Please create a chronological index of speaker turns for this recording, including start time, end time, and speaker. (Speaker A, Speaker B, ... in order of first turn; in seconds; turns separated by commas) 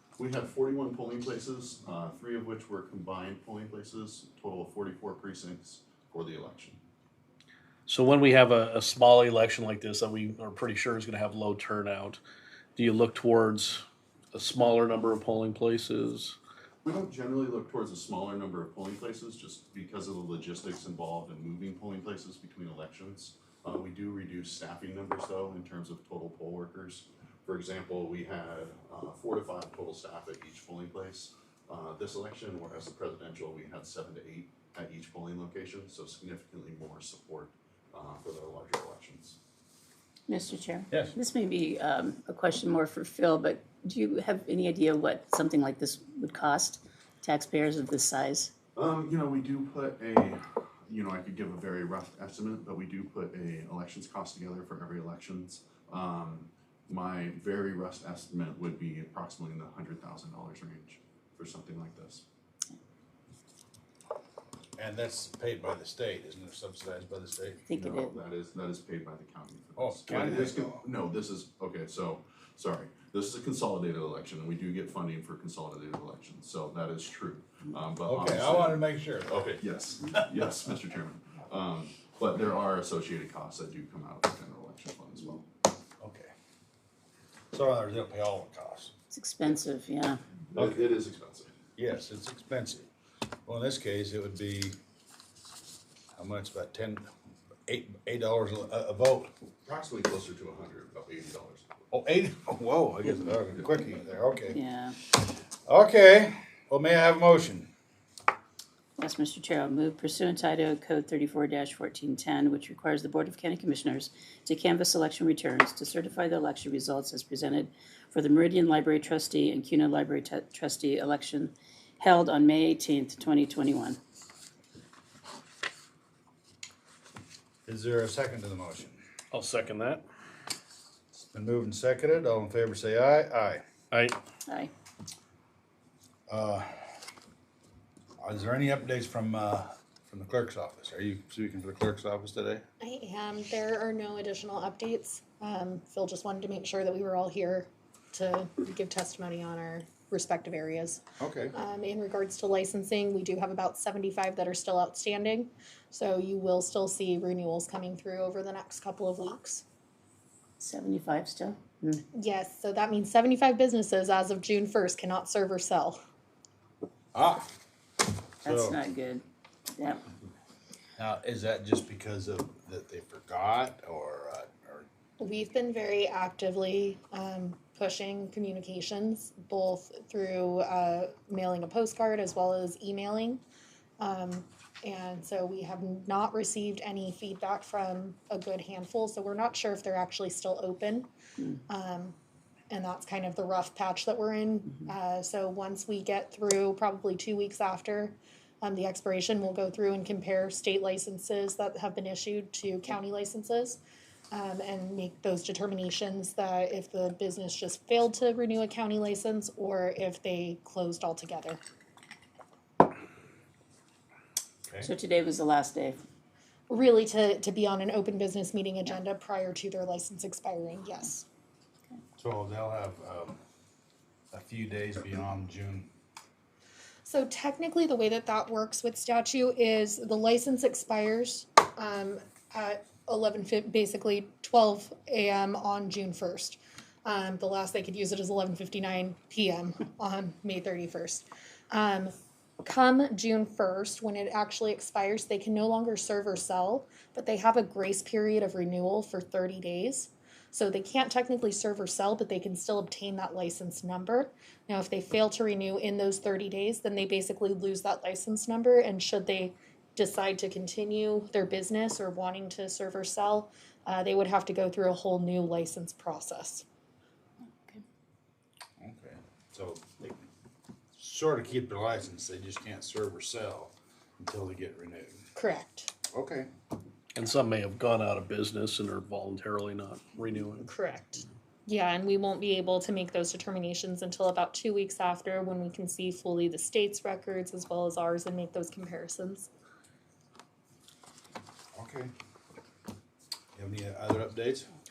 Speaker A: 0.2-6.8, Speaker B: 7.9-12.2, Speaker B: 12.8-13.8, Speaker B: 14.3-16.4, Speaker A: 16.8-39.4, Speaker C: 40.3-48.5, Speaker A: 48.8-62.2, Speaker D: 64.8-67.6, Speaker C: 67.7-68.2, Speaker A: 67.7-85.5, Speaker D: 69.8-70.8, Speaker D: 78.0-79.6, Speaker D: 86.0-86.3, Speaker D: 87.5-88.9, Speaker C: 89.1-90.2, Speaker A: 90.5-91.5, Speaker D: 90.6-90.9, Speaker D: 91.8-92.9, Speaker D: 93.5-94.8, Speaker D: 96.2-97.1, Speaker D: 97.7-99.3, Speaker A: 99.7-101.7, Speaker D: 101.9-104.6, Speaker A: 103.4-103.8, Speaker C: 104.5-105.0, Speaker D: 105.7-107.7, Speaker C: 109.0-124.0, Speaker D: 127.7-129.0, Speaker B: 129.3-130.0, Speaker D: 131.2-133.6, Speaker C: 134.5-134.7, Speaker D: 136.3-136.7, Speaker D: 138.2-142.6, Speaker E: 142.8-151.0, Speaker D: 151.2-151.5, Speaker E: 151.5-159.7, Speaker C: 160.6-162.1, Speaker E: 162.1-166.0, Speaker D: 167.1-167.5, Speaker D: 168.4-168.8, Speaker C: 168.4-169.2, Speaker C: 169.8-170.0, Speaker D: 171.0-174.9, Speaker E: 175.2-183.4, Speaker E: 184.0-191.1, Speaker E: 191.7-192.2, Speaker E: 192.7-203.8, Speaker E: 204.3-211.6, Speaker C: 214.8-216.0, Speaker E: 216.7-221.2, Speaker D: 222.2-223.4, Speaker D: 224.3-225.9, Speaker E: 227.1-242.1, Speaker E: 242.6-266.6, Speaker D: 268.8-270.3, Speaker D: 271.0-275.2, Speaker E: 275.4-275.9, Speaker D: 276.1-276.5, Speaker B: 277.2-280.7, Speaker E: 280.6-289.5, Speaker D: 291.8-292.1, Speaker D: 293.6-294.7